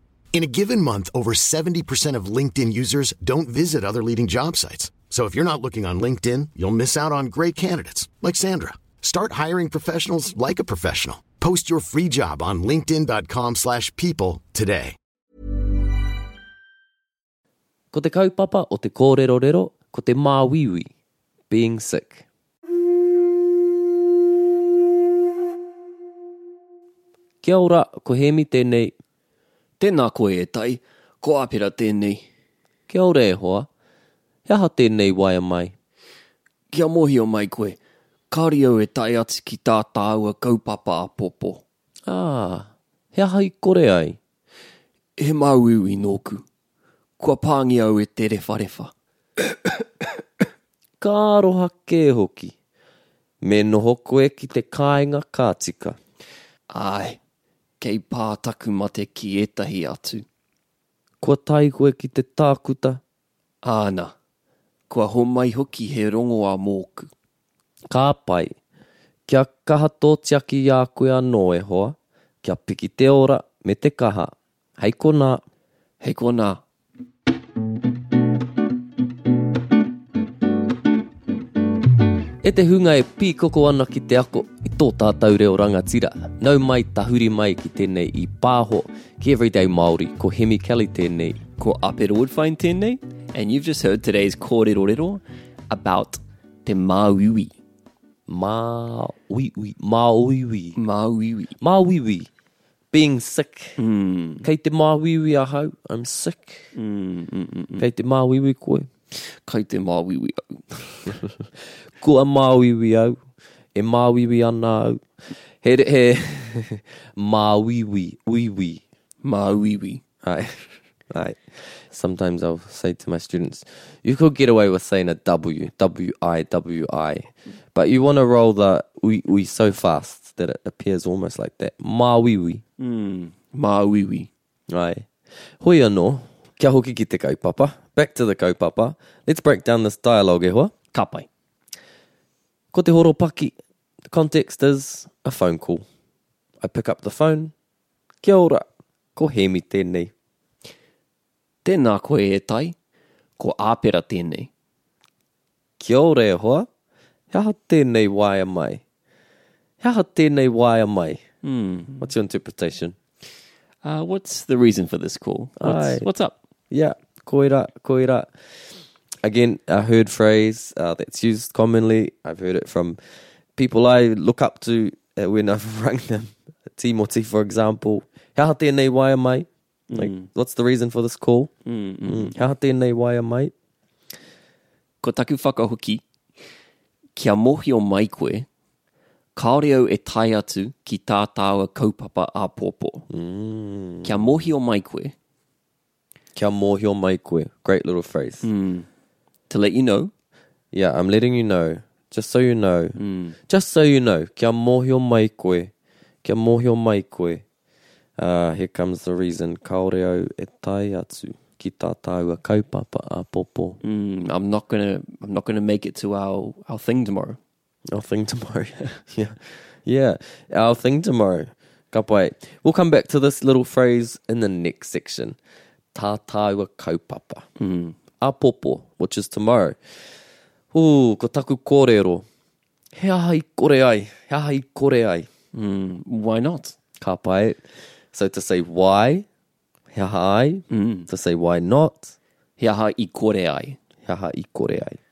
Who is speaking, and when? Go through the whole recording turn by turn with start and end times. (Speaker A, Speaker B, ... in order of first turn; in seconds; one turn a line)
Speaker A: 0.3-15.0
Speaker B: 17.9-20.9
Speaker B: 21.5-22.2
Speaker B: 27.4-29.0
Speaker C: 29.8-32.2
Speaker B: 32.9-33.7
Speaker B: 34.5-35.7
Speaker C: 36.7-37.8
Speaker C: 38.3-41.6
Speaker B: 42.1-44.2
Speaker C: 45.2-46.5
Speaker C: 47.2-48.9
Speaker B: 51.0-52.5
Speaker B: 53.4-56.0
Speaker C: 56.7-57.2
Speaker C: 57.8-60.2
Speaker B: 61.2-63.0
Speaker C: 63.6-64.2
Speaker C: 64.9-67.1
Speaker B: 67.9-68.5
Speaker B: 69.3-75.4
Speaker C: 76.0-76.6
Speaker B: 82.4-91.4
Speaker C: 91.6-97.6
Speaker B: 98.3-100.8
Speaker C: 100.8-101.6
Speaker B: 101.6-102.3
Speaker B: 102.9-103.8
Speaker C: 103.8-104.5
Speaker B: 104.4-106.7
Speaker C: 106.8-107.9
Speaker B: 107.8-108.9
Speaker C: 109.1-111.1
Speaker B: 111.1-113.2
Speaker B: 113.8-115.0
Speaker B: 115.6-118.8
Speaker C: 119.2-120.0
Speaker B: 120.2-132.6
Speaker C: 132.8-134.3
Speaker B: 134.7-135.1
Speaker B: 135.6-140.7
Speaker C: 140.9-141.3
Speaker B: 142.7-143.5
Speaker B: 144.1-145.8
Speaker B: 146.6-147.5
Speaker B: 148.2-150.1
Speaker C: 151.6-152.8
Speaker C: 153.4-154.5
Speaker B: 155.8-156.7
Speaker B: 157.3-158.8
Speaker B: 159.8-161.2
Speaker C: 161.4-162.0
Speaker B: 162.0-162.9
Speaker C: 163.8-166.4
Speaker B: 165.6-166.1
Speaker B: 166.7-168.3
Speaker B: 169.2-173.0
Speaker B: 173.6-181.5
Speaker C: 179.9-180.3
Speaker C: 181.7-182.4
Speaker B: 182.1-183.5
Speaker C: 185.0-186.0
Speaker C: 187.2-188.5
Speaker C: 189.3-193.1
Speaker B: 193.1-194.3
Speaker C: 194.0-195.2
Speaker B: 196.3-198.5
Speaker C: 198.4-198.9
Speaker C: 199.5-200.1
Speaker B: 200.7-203.0
Speaker C: 203.0-203.4
Speaker B: 203.5-205.7
Speaker B: 206.2-207.4
Speaker B: 208.2-213.8
Speaker C: 213.8-217.4
Speaker B: 217.9-225.4
Speaker B: 225.9-227.4
Speaker C: 227.6-228.0
Speaker B: 228.2-229.8
Speaker B: 230.7-232.2
Speaker B: 232.9-235.3
Speaker C: 235.5-236.8
Speaker B: 237.0-239.3
Speaker B: 239.9-242.1
Speaker C: 240.7-241.1
Speaker C: 242.6-243.8
Speaker B: 244.1-245.0